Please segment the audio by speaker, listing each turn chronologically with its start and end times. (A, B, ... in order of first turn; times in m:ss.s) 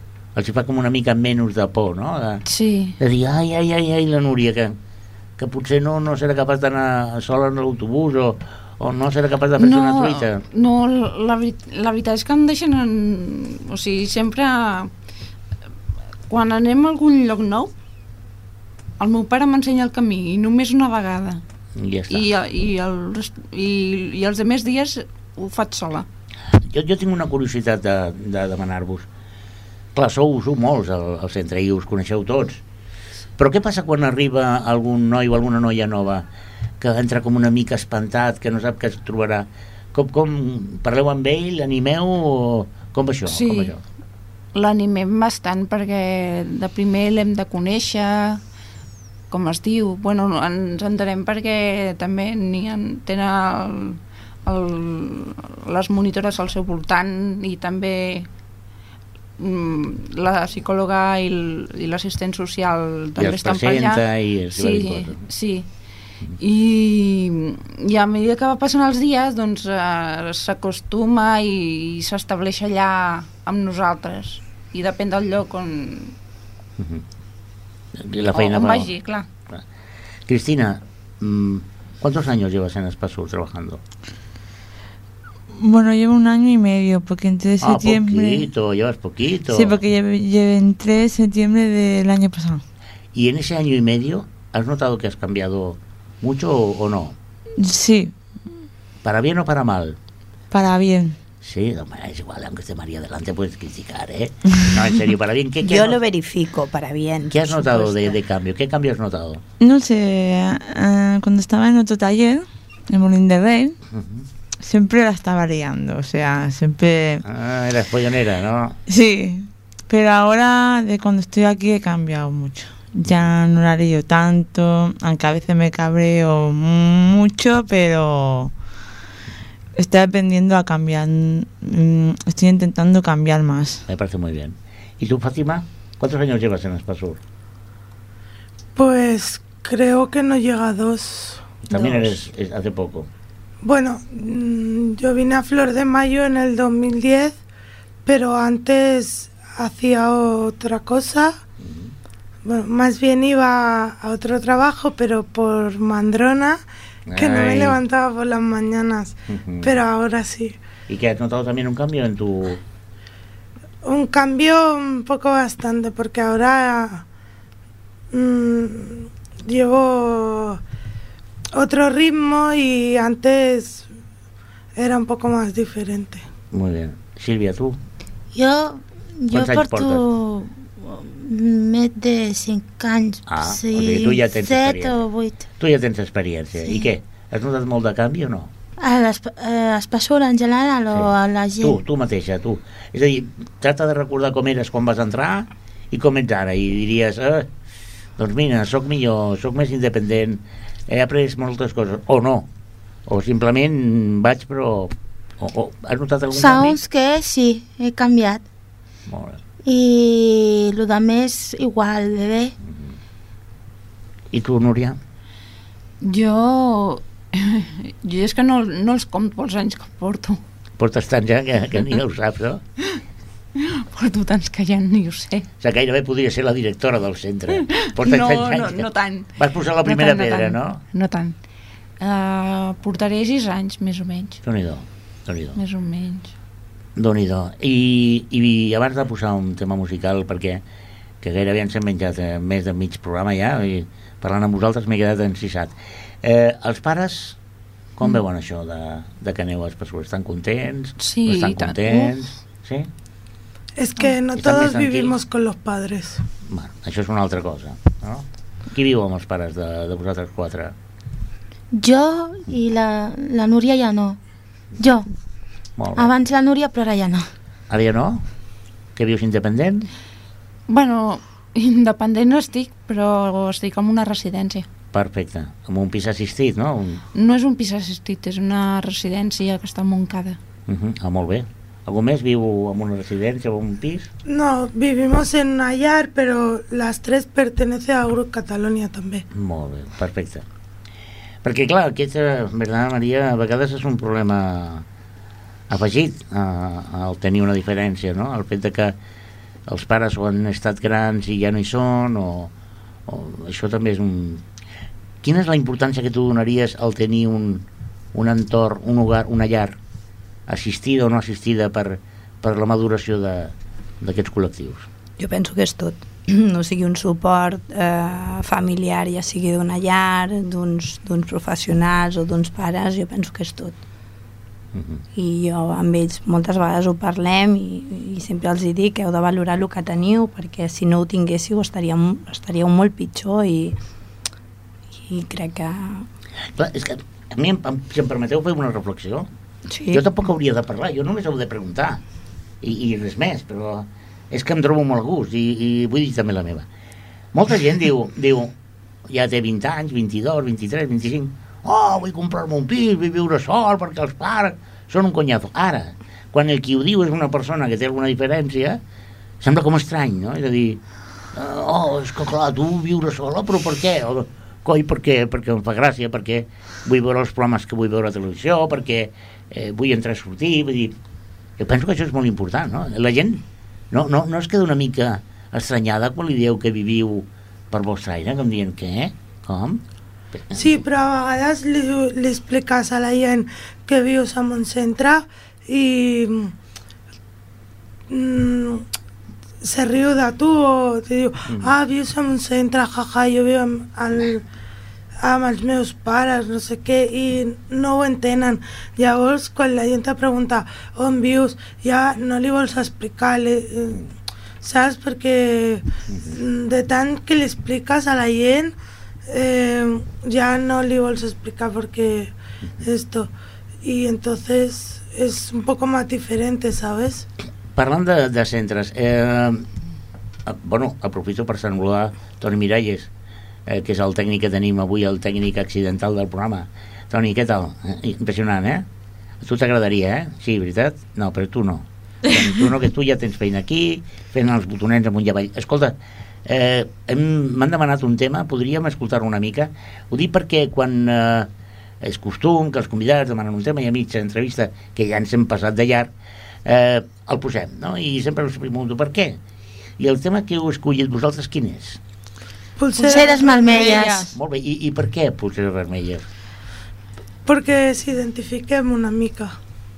0:00.3-0:02.4 A
0:02.5-0:03.0 B
0:03.0-0:04.8 A
0:05.4-0:10.4 A
0:09.6-0:14.9 B
0:16.3-0:17.7 B
0:19.0-0:21.4 B
0:21.8-0:22.3 A
0:22.1-0:26.1 B
0:26.6-0:29.1 A
0:29.9-0:32.6 A
0:33.4-0:36.2 A
0:36.8-0:43.8 A
0:43.3-0:43.7 B
0:44.5-0:48.4 B
0:49.3-0:58.3 B
0:59.4-1:05.7 B
1:03.2-1:05.2 A
1:06.4-1:16.2 B
1:16.8-1:17.0 A
1:18.0-1:18.9 A
1:18.3-1:19.3 B
1:20.3-1:23.8 A
1:25.6-1:28.4 C
1:27.6-1:29.8 A
1:29.5-1:32.6 C
1:33.1-1:37.2 A
1:37.6-1:38.2 C
1:39.0-1:40.0 A
1:40.5-1:41.2 C
1:41.4-1:46.0 A
1:45.6-1:48.2 D
1:47.3-1:49.4 A
1:49.6-1:53.8 C
1:53.9-1:54.2 A
1:54.6-1:57.2 C
1:57.2-1:58.8 A
1:58.9-2:08.5 C
2:09.8-2:13.8 C
2:13.9-2:17.2 A
2:18.8-2:21.9 E
2:21.7-2:23.1 A
2:23.6-2:27.4 E
2:28.0-2:31.3 E
2:31.6-2:31.9 A
2:32.4-2:36.6 E
2:37.1-2:37.8 A
2:37.1-2:40.6 E
2:39.3-2:39.7 A
2:40.9-2:42.6 A
2:43.8-2:47.0 E
2:48.1-2:50.6 E
2:51.5-2:53.9 E
2:54.7-2:56.2 E
2:56.5-2:57.8 A
2:58.3-3:05.4 F
2:59.3-3:00.0 A
3:03.3-3:05.0 A
3:05.6-3:08.5 A
3:08.8-3:11.8 F
3:10.9-3:17.5 A
3:18.2-3:22.5 A
3:23.1-3:26.8 A
3:26.3-3:28.4 F
3:29.1-3:29.4 A
3:29.6-3:32.5 F
3:32.6-3:32.9 A
3:34.3-3:35.0 A
3:36.0-3:40.4 B
3:40.8-3:42.6 A
3:43.5-3:45.5 B
3:45.6-3:50.8 A
3:47.5-3:49.3 B
3:49.8-3:51.3 B
3:52.0-3:54.4 B
3:54.4-3:55.6 A
3:55.5-3:56.3 B
3:57.0-4:00.6 A
4:01.2-4:07.4 A
4:08.0-4:12.9 A
4:11.0-4:12.2 B
4:13.8-4:16.2 E
4:14.4-4:15.2 A
4:16.4-4:20.7 A
4:21.7-4:24.2 F
4:24.8-4:25.1 F
4:25.8-4:26.1 A
4:26.0-4:27.3 F
4:27.7-4:28.2 A
4:29.0-4:29.9 A
4:30.7-4:34.7 B
4:34.9-4:37.0 A
4:37.1-4:40.4 B
4:40.7-4:44.1 A
4:44.2-4:49.2 E
4:49.3-4:50.4 A
4:51.4-4:54.8 A
4:55.7-4:59.0 A
4:59.7-5:02.5 A
5:03.1-5:04.4 A
5:05.2-5:09.8 A
5:10.5-5:14.9 A
5:15.2-5:23.8 D
5:24.7-5:25.0 A
5:25.1-5:33.8 D
5:35.1-5:36.0 D
5:36.5-5:39.3 A
5:39.7-5:40.0 D
5:39.9-5:42.0 A
5:42.6-5:46.6 A
5:47.3-5:48.5 A
5:49.1-5:58.8 A
5:59.4-6:00.8 A
6:01.3-6:11.0 A
6:11.6-6:19.8 A
6:20.4-6:20.8 A
6:20.5-6:26.5 E
6:28.1-6:28.9 E
6:29.6-6:34.4 E
6:31.5-6:31.7 A
6:35.2-6:44.0 E
6:44.6-6:48.7 E
6:46.1-6:46.4 A
6:49.3-6:53.3 E
6:53.8-6:57.2 E
6:57.7-6:59.6 A
7:00.4-7:03.1 A
7:03.6-7:08.8 A
7:09.4-7:21.5 A
7:22.0-7:26.1 A
7:26.6-7:29.4 A
7:30.0-7:32.0 A
7:32.8-7:34.1 E
7:33.0-7:34.3 F
7:33.8-7:36.3 A
7:33.8-7:34.3 C
7:37.4-7:39.6 E